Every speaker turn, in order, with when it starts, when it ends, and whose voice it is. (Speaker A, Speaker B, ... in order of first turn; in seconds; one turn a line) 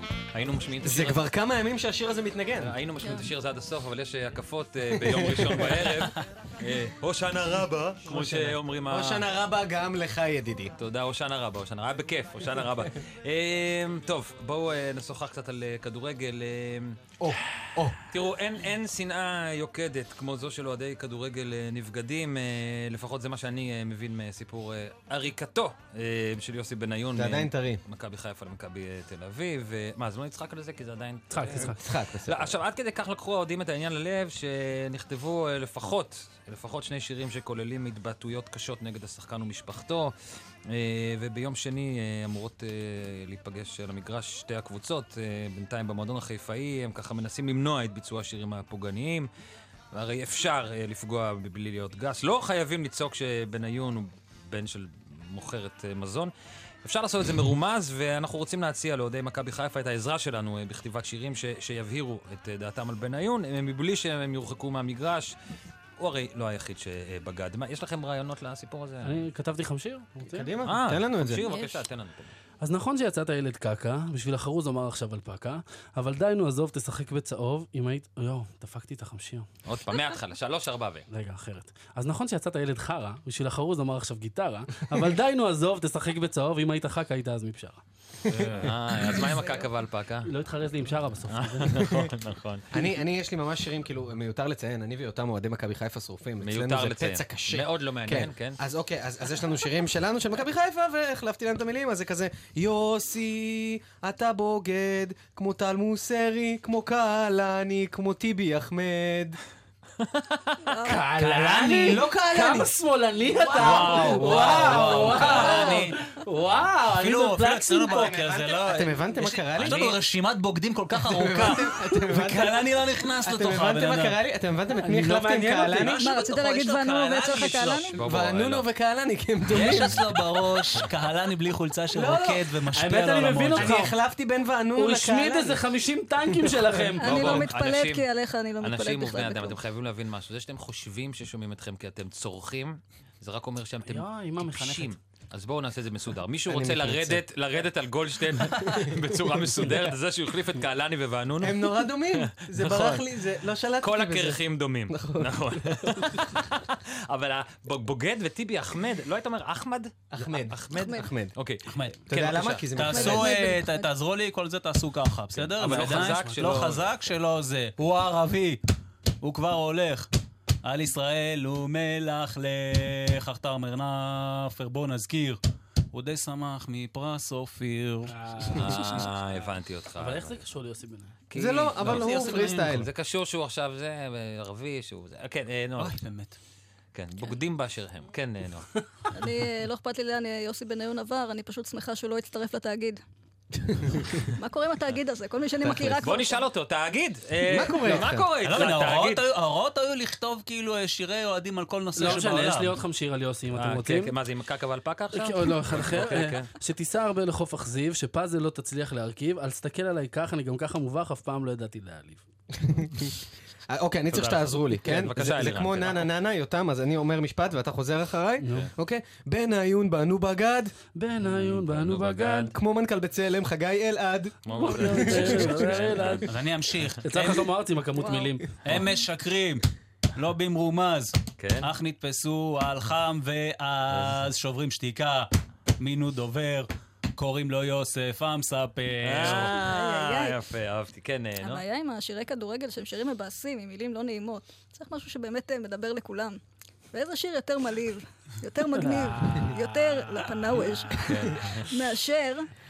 Speaker A: 0.3-1.2
Speaker B: 0.8-2.8
Speaker A: 2.6-9.3
Speaker C: 3.0-3.2
Speaker B: 5.0-5.9
Speaker B: 8.1-10.7
Speaker A: 10.8-17.0
Speaker B: 17.2-18.0
Speaker A: 18.1-40.1
Speaker B: 27.1-27.8
Speaker D: 31.3-31.8
Speaker B: 31.5-32.5
Speaker A: 40.7-49.3
Speaker A: 49.9-56.3
Speaker A: 56.8-65.3
Speaker A: 66.0-69.2
Speaker D: 69.0-70.5
Speaker B: 70.3-71.5
Speaker A: 70.6-72.3
Speaker C: 71.5-71.8
Speaker D: 72.6-79.5
Speaker A: 79.6-81.0
Speaker D: 81.1-87.8
Speaker B: 88.3-88.7
Speaker A: 88.3-90.3
Speaker D: 90.2-91.9
Speaker A: 91.3-92.7
Speaker B: 92.7-109.4
Speaker A: 96.4-98.6
Speaker A: 110.0-110.4
Speaker C: 110.7-111.1
Speaker D: 110.8-118.1
Speaker E: 111.2-112.0
Speaker B: 111.5-112.7
Speaker B: 113.4-115.7
Speaker E: 113.5-115.9
Speaker A: 115.1-115.9
Speaker E: 116.9-124.2
Speaker B: 117.8-120.0
Speaker A: 119.6-119.9
Speaker B: 120.9-126.0
Speaker D: 124.7-126.0
Speaker E: 125.8-127.9
Speaker C: 126.0-127.9
Speaker A: 127.9-128.7
Speaker B: 128.0-130.0
Speaker E: 129.5-133.9
Speaker B: 131.9-132.5
Speaker D: 132.7-133.9
Speaker B: 133.5-135.6
Speaker D: 134.8-137.4
Speaker B: 136.4-136.9
Speaker C: 137.0-139.6
Speaker A: 137.0-138.1
Speaker A: 138.6-153.0
Speaker D: 143.9-144.9
Speaker B: 146.5-147.2
Speaker B: 148.6-149.0
Speaker B: 151.4-155.6
Speaker A: 153.8-162.7
Speaker B: 160.1-161.3
Speaker C: 160.8-161.0
Speaker E: 161.7-162.0
Speaker B: 162.1-163.3
Speaker E: 162.7-168.6
Speaker C: 162.9-163.9
Speaker A: 165.3-166.8
Speaker E: 169.2-170.1
Speaker E: 170.6-175.4
Speaker E: 175.9-179.1
Speaker D: 178.1-178.9
Speaker A: 178.6-180.4
Speaker D: 180.0-181.1
Speaker A: 181.3-186.0
Speaker B: 181.3-182.9
Speaker E: 181.8-182.8
Speaker E: 185.8-186.4
Speaker A: 186.9-188.7
Speaker C: 189.1-193.0
Speaker B: 193.6-194.2
Speaker C: 194.4-196.4
Speaker B: 195.6-196.0
Speaker A: 195.8-199.2
Speaker B: 197.4-198.3
Speaker E: 198.4-202.8
Speaker D: 201.9-204.1
Speaker A: 203.5-206.5
Speaker D: 205.1-212.2
Speaker B: 212.6-213.1
Speaker B: 213.7-220.7
Speaker A: 214.1-216.1
Speaker D: 218.4-218.7
Speaker D: 220.9-222.5
Speaker A: 221.3-222.5
Speaker B: 222.5-225.6
Speaker A: 224.4-226.2
Speaker D: 224.5-226.3
Speaker E: 226.2-227.5
Speaker D: 227.0-228.4
Speaker C: 227.9-228.4
Speaker E: 228.6-235.3
Speaker A: 231.4-231.7
Speaker A: 233.9-234.2
Speaker E: 235.8-239.6
Speaker A: 239.0-241.6
Speaker C: 239.3-240.4
Speaker C: 241.4-246.4
Speaker C: 246.9-252.5
Speaker A: 251.0-251.7